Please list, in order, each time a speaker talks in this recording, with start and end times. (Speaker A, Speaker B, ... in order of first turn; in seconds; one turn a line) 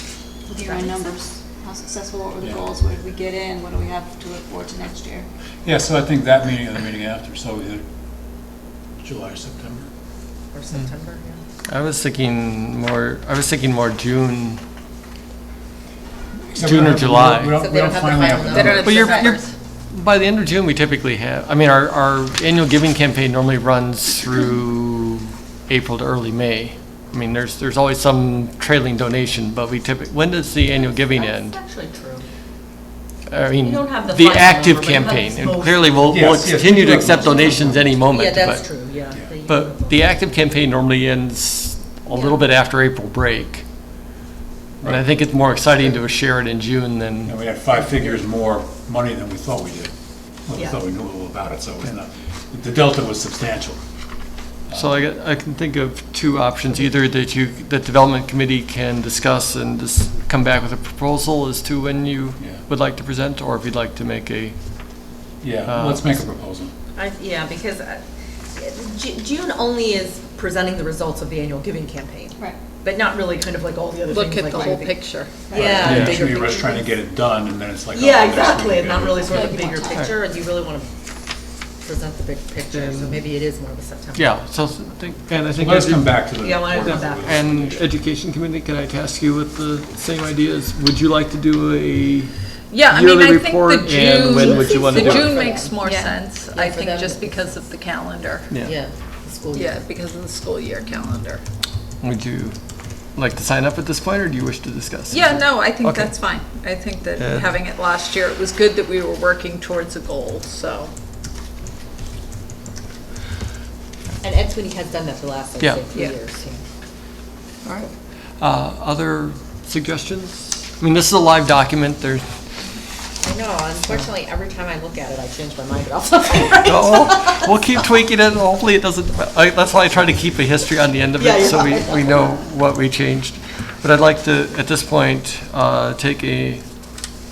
Speaker A: 0.5-5.3
Speaker B: 0.6-1.2
Speaker C: 2.4-2.6
Speaker C: 5.6-7.8
Speaker C: 9.0-9.9
Speaker B: 10.5-11.4
Speaker D: 11.7-14.6
Speaker C: 16.5-18.9
Speaker D: 16.5-17.6
Speaker B: 17.6-19.4
Speaker E: 18.5-19.5
Speaker D: 18.8-31.6
Speaker B: 31.1-32.2
Speaker D: 33.3-38.8
Speaker B: 33.6-36.3
Speaker C: 36.1-37.9
Speaker B: 37.2-40.1
Speaker D: 39.5-43.6
Speaker B: 42.1-42.4
Speaker D: 44.8-47.4
Speaker C: 47.2-49.9
Speaker C: 50.5-53.8
Speaker C: 54.7-55.0
Speaker D: 54.7-64.6
Speaker C: 65.4-66.7
Speaker D: 65.7-66.2
Speaker B: 66.9-68.0
Speaker B: 68.5-76.8
Speaker E: 74.1-75.5
Speaker C: 75.5-79.5
Speaker A: 75.6-76.1
Speaker D: 75.8-76.2
Speaker B: 77.9-80.9
Speaker A: 79.3-80.0
Speaker B: 81.8-84.3
Speaker D: 82.7-83.2
Speaker D: 84.2-86.2
Speaker C: 85.5-87.9
Speaker B: 86.4-87.4
Speaker D: 86.8-92.3
Speaker E: 92.7-98.5
Speaker D: 92.8-95.4
Speaker B: 94.3-95.8
Speaker A: 95.8-96.2
Speaker B: 96.3-97.6
Speaker B: 98.6-99.8
Speaker E: 99.5-101.4
Speaker D: 102.0-102.6
Speaker D: 103.1-106.2
Speaker E: 105.1-110.9
Speaker D: 107.2-107.5
Speaker B: 114.2-116.6
Speaker D: 117.7-122.3
Speaker B: 123.2-127.5
Speaker D: 126.3-136.6
Speaker B: 131.2-132.3